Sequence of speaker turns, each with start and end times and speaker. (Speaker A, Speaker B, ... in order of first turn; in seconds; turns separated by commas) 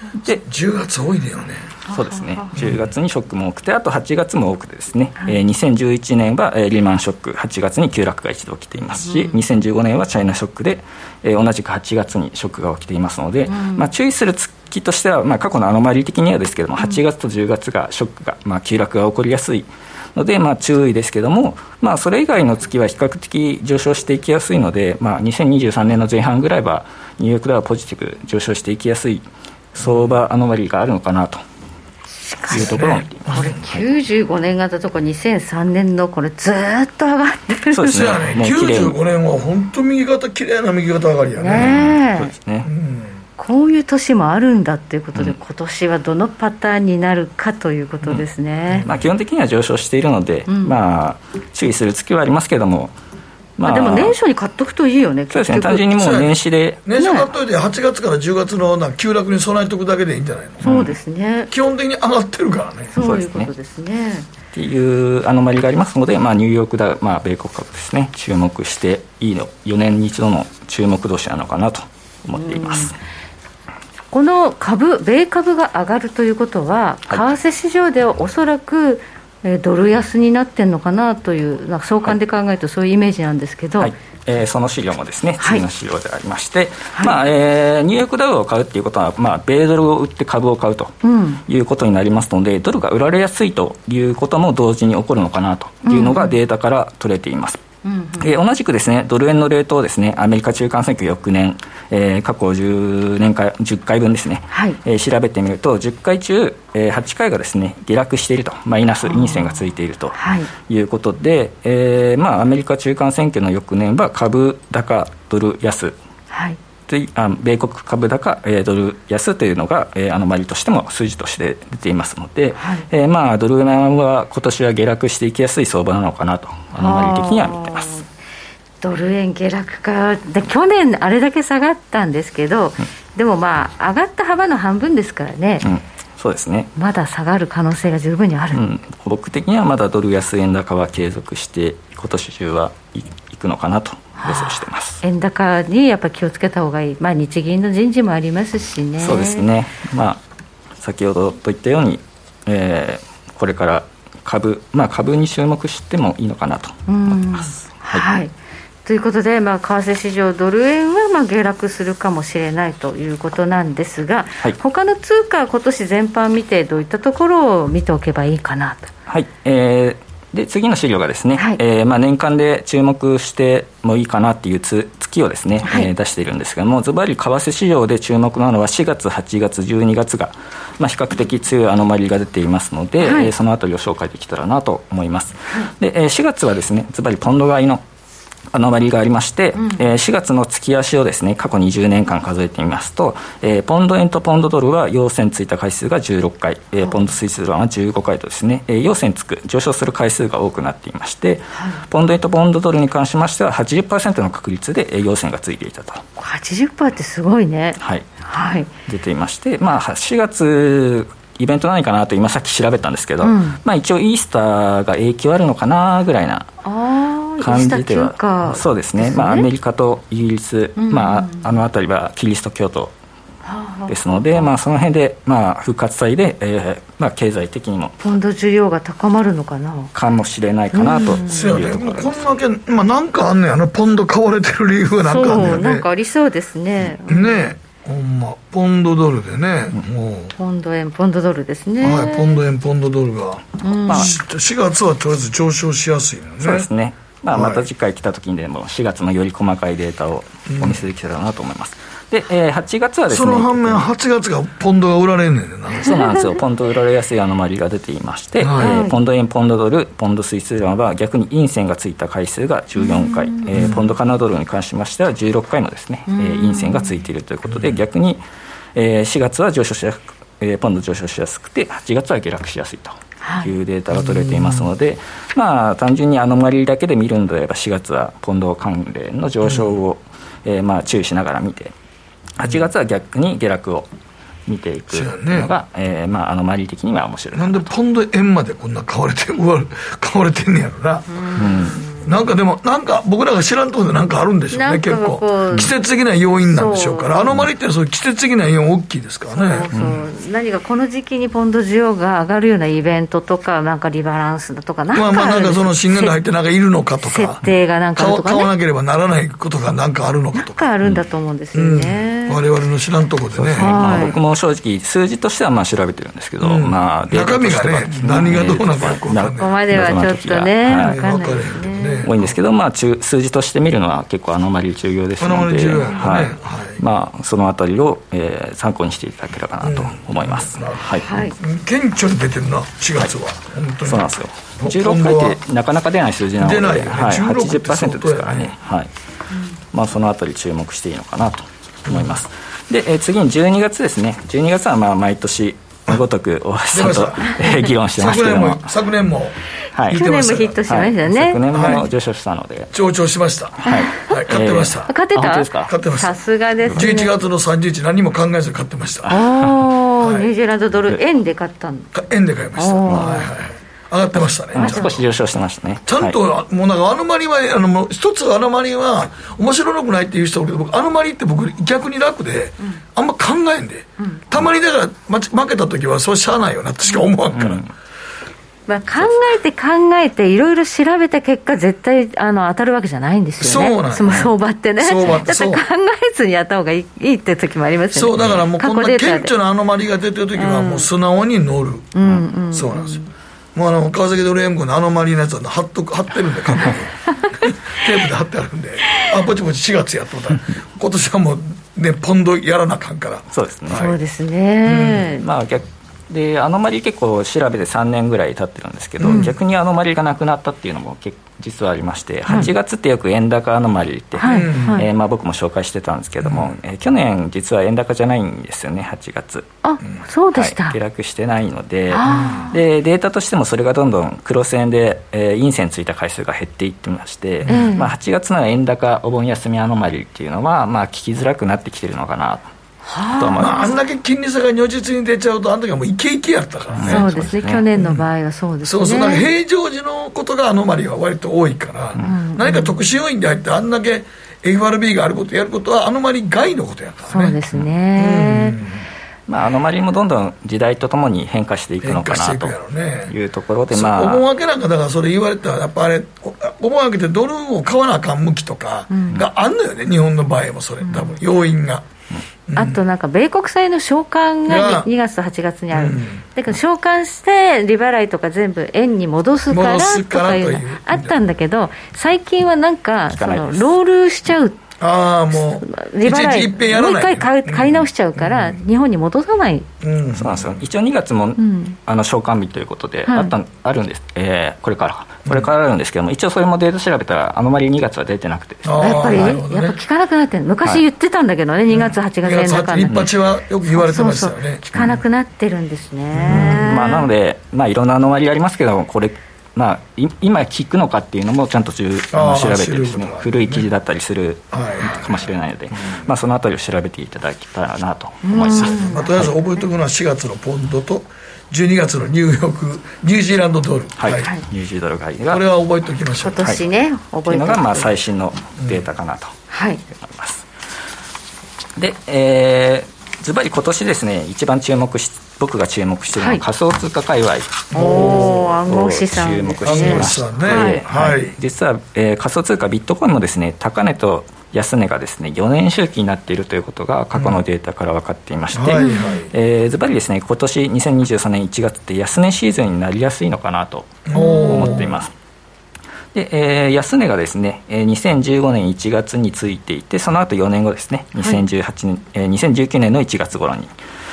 Speaker A: 0.2-1.8, Speaker B: 1.9-2.5, Speaker C: 1.9-31.4, Speaker A: 2.5-2.8, Speaker B: 9.0-9.4, Speaker B: 13.5-13.9, Speaker A: 29.8-30.1, Speaker B: 32.1-38.0, Speaker C: 32.5-33.8, Speaker A: 32.5-33.6, Speaker C: 37.7-39.0, Speaker A: 37.9-41.8, Speaker B: 41.4-42.3, Speaker C: 41.5-42.7, Speaker A: 42.6-43.2, Speaker B: 43.4-48.9, Speaker C: 48.8-52.9, Speaker B: 50.5-50.8, Speaker C: 53.6-54.1, Speaker B: 53.6-55.8, Speaker C: 55.3-56.8, Speaker A: 56.0-60.7, Speaker B: 57.0-57.3, Speaker B: 60.6-61.5, Speaker C: 60.6-61.0, Speaker A: 61.5-63.0, Speaker B: 62.9-64.3, Speaker C: 63.0-63.5, Speaker C: 64.5-73.0, Speaker B: 72.3-72.9, Speaker B: 74.1-83.9, Speaker C: 83.8-90.9, Speaker B: 91.0-91.4, Speaker C: 91.5-97.6, Speaker B: 95.8-96.4, Speaker B: 97.8-98.3, Speaker C: 98.2-116.0, Speaker B: 104.5-104.8, Speaker B: 109.0-109.5, Speaker B: 110.1-110.5, Speaker B: 116.3-116.6, Speaker C: 116.9-127.9, Speaker B: 122.6-122.8, Speaker B: 126.7-128.1, Speaker B: 128.8-135.7, Speaker C: 135.6-136.7, Speaker B: 136.8-138.6, Speaker C: 138.5-145.0, Speaker B: 144.2-149.4, Speaker C: 149.0-150.2, Speaker C: 150.8-158.1, Speaker B: 156.9-158.3, Speaker B: 158.8-168.9, Speaker C: 169.1-187.8, Speaker B: 171.3-171.6, Speaker B: 183.0-183.3, Speaker C: 188.5-206.0, Speaker B: 189.6-189.8, Speaker B: 196.8-197.1, Speaker B: 201.5-201.8, Speaker B: 206.2-208.7, Speaker C: 207.8-208.1, Speaker C: 208.9-216.5, Speaker B: 213.2-213.6, Speaker B: 216.6-219.5, Speaker C: 217.4-222.9, Speaker B: 220.8-221.6, Speaker B: 223.4-224.5, Speaker C: 223.9-227.9, Speaker B: 228.0-229.9, Speaker C: 229.9-232.2, Speaker B: 230.7-231.4, Speaker A: 231.3-235.9, Speaker B: 235.1-237.4, Speaker C: 235.2-235.5, Speaker A: 237.0-240.3, Speaker B: 240.4-242.4, Speaker A: 241.8-246.7, Speaker B: 243.6-244.1, Speaker C: 243.9-244.1, Speaker C: 246.4-253.9, Speaker A: 247.3-247.6, Speaker A: 250.5-250.8, Speaker A: 253.1-255.9, Speaker B: 255.8-256.4, Speaker C: 255.9-268.2, Speaker A: 258.4-258.8, Speaker B: 258.6-258.9, Speaker B: 262.8-263.9, Speaker A: 263.5-263.8, Speaker B: 266.1-266.9, Speaker A: 267.5-267.8, Speaker C: 268.7-281.7, Speaker B: 273.2-273.5, Speaker A: 273.9-274.7, Speaker A: 279.4-279.8, Speaker C: 282.4-283.9, Speaker C: 284.5-287.6, Speaker A: 284.9-285.5, Speaker A: 287.3-291.2, Speaker B: 291.1-292.1, Speaker C: 291.4-291.8, Speaker A: 292.0-299.9, Speaker B: 294.5-295.7, Speaker B: 296.4-297.4, Speaker B: 299.3-306.1, Speaker C: 299.7-300.0, Speaker A: 304.9-307.4, Speaker B: 307.0-308.5, Speaker A: 307.9-310.7, Speaker B: 310.3-312.4, Speaker A: 311.5-314.2, Speaker C: 313.3-320.9, Speaker B: 313.6-314.1, Speaker A: 316.4-319.6, Speaker B: 319.4-322.1, Speaker A: 320.7-322.3, Speaker C: 322.0-331.1, Speaker A: 325.2-326.8, Speaker A: 329.6-335.4, Speaker B: 331.0-331.4, Speaker C: 333.9-338.9, Speaker A: 336.4-338.6, Speaker C: 339.7-348.6, Speaker A: 341.9-342.2, Speaker A: 346.7-349.4, Speaker B: 347.4-347.7, Speaker C: 349.7-350.1, Speaker A: 349.9-350.6, Speaker B: 349.9-351.4, Speaker C: 350.6-352.7, Speaker A: 351.5-351.9, Speaker A: 352.7-355.0, Speaker B: 353.7-354.0, Speaker C: 353.7-355.7, Speaker B: 354.9-357.1, Speaker A: 355.7-356.1, Speaker A: 356.7-359.2, Speaker B: 359.1-361.9, Speaker A: 360.0-360.3, Speaker A: 361.9-365.0, Speaker B: 362.6-363.3, Speaker B: 364.1-365.0, Speaker C: 364.6-366.2, Speaker A: 365.9-377.6, Speaker B: 374.0-374.3, Speaker C: 377.3-377.7, Speaker B: 378.7-389.3, Speaker A: 383.4-385.6, Speaker A: 387.9-391.9, Speaker B: 390.3-390.9, Speaker B: 391.9-393.1, Speaker A: 392.5-393.0, Speaker A: 393.5-404.0, Speaker C: 403.3-403.9, Speaker B: 403.7-405.2, Speaker A: 404.6-405.1, Speaker C: 405.2-419.5, Speaker A: 409.0-409.3, Speaker B: 414.2-414.9, Speaker A: 414.2-414.8, Speaker A: 416.2-416.5, Speaker B: 419.6-420.8, Speaker C: 420.3-432.5, Speaker B: 421.9-422.6, Speaker A: 422.0-422.5, Speaker A: 427.4-427.7, Speaker B: 427.4-427.9, Speaker B: 432.8-433.8, Speaker C: 433.2-433.7, Speaker A: 433.4-438.0, Speaker C: 436.7-437.7, Speaker B: 436.8-439.2, Speaker A: 438.6-447.4, Speaker C: 441.9-442.2, Speaker B: 442.0-442.8, Speaker B: 447.1-448.5, Speaker A: 448.0-448.8, Speaker C: 449.3-452.6, Speaker A: 451.8-453.1, Speaker C: 453.1-454.2, Speaker A: 453.7-461.9, Speaker B: 458.9-459.2, Speaker B: 460.8-461.1, Speaker A: 462.5-462.8, Speaker B: 462.6-474.6, Speaker A: 464.5-464.9, Speaker A: 465.7-466.2, Speaker A: 469.5-471.1, Speaker C: 473.1-473.7, Speaker A: 474.8-478.5, Speaker B: 475.3-479.7, Speaker A: 479.8-480.6, Speaker C: 480.1-489.4, Speaker B: 481.4-481.8, Speaker B: 483.1-483.3, Speaker A: 488.6-489.8, Speaker B: 488.8-493.0, Speaker A: 491.7-495.0, Speaker B: 493.6-497.1, Speaker A: 496.1-496.7, Speaker C: 496.3-509.3, Speaker A: 502.1-503.7, Speaker A: 504.5-506.1, Speaker B: 508.2-509.1, Speaker A: 508.3-514.3, Speaker C: 514.0-515.4, Speaker A: 515.3-516.5, Speaker B: 516.2-517.9, Speaker C: 517.2-519.3, Speaker A: 518.6-518.8, Speaker B: 519.5-519.8, Speaker C: 519.9-520.4, Speaker C: 521.8-545.1, Speaker B: 526.2-526.4, Speaker A: 527.7-528.5, Speaker B: 527.7-530.8, Speaker A: 529.6-531.3, Speaker A: 538.5-539.3, Speaker B: 538.8-539.1, Speaker A: 544.1-545.0, Speaker B: 544.1-544.8, Speaker C: 546.1-553.7, Speaker B: 551.2-551.4